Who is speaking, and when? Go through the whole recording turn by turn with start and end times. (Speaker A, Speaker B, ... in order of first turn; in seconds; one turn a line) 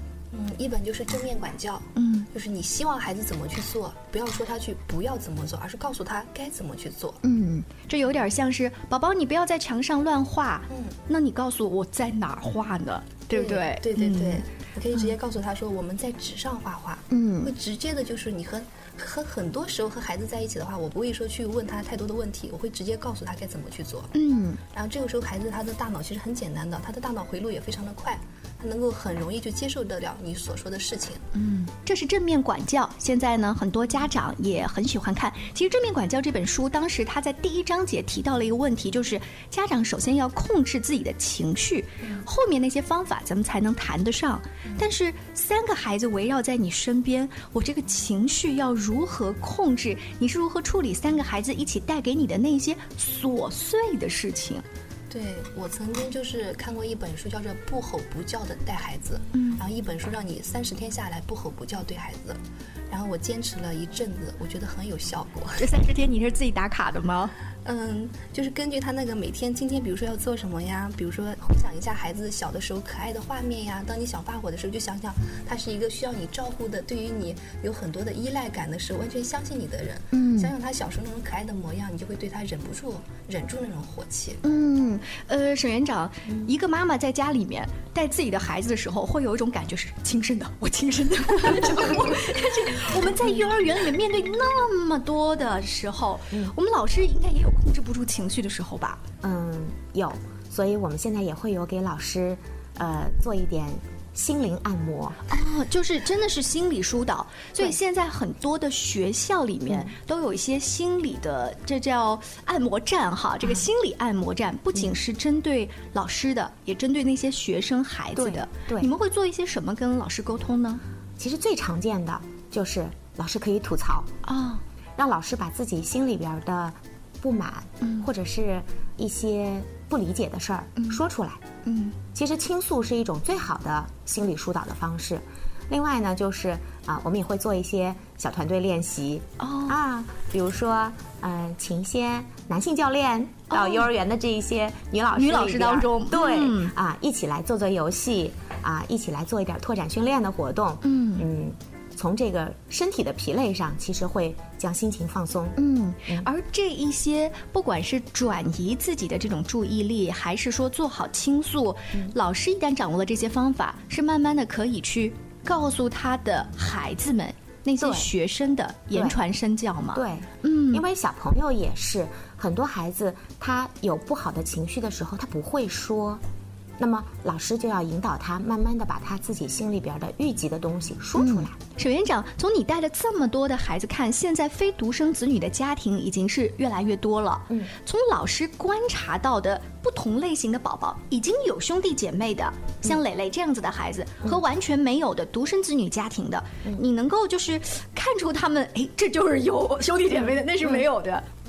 Speaker A: 0.3-7.2
Speaker B: 2.0-2.3
Speaker B: 7.2-14.4
Speaker A: 10.7-11.0
Speaker A: 13.3-24.1
Speaker B: 17.1-17.5
Speaker B: 24.1-24.6
Speaker A: 24.7-31.2
Speaker B: 31.3-54.6
Speaker A: 55.1-65.7
Speaker B: 59.3-59.6
Speaker B: 65.6-67.3
Speaker A: 67.7-84.4
Speaker B: 80.1-80.5
Speaker B: 84.4-99.0
Speaker C: 99.2-105.2
Speaker B: 105.3-120.8
Speaker C: 109.7-109.9
Speaker C: 118.2-118.9
Speaker C: 121.2-124.1
Speaker B: 124.2-124.6
Speaker C: 125.0-131.4
Speaker B: 127.8-128.1
Speaker B: 130.8-131.0
Speaker B: 131.7-132.0
Speaker C: 132.1-156.3
Speaker B: 139.4-139.8
Speaker B: 143.5-143.9
Speaker B: 145.2-146.7
Speaker B: 150.8-151.3
Speaker B: 155.6-170.8
Speaker C: 167.8-168.1
Speaker C: 168.9-169.2
Speaker C: 169.9-176.2
Speaker C: 176.8-181.6
Speaker B: 181.2-201.2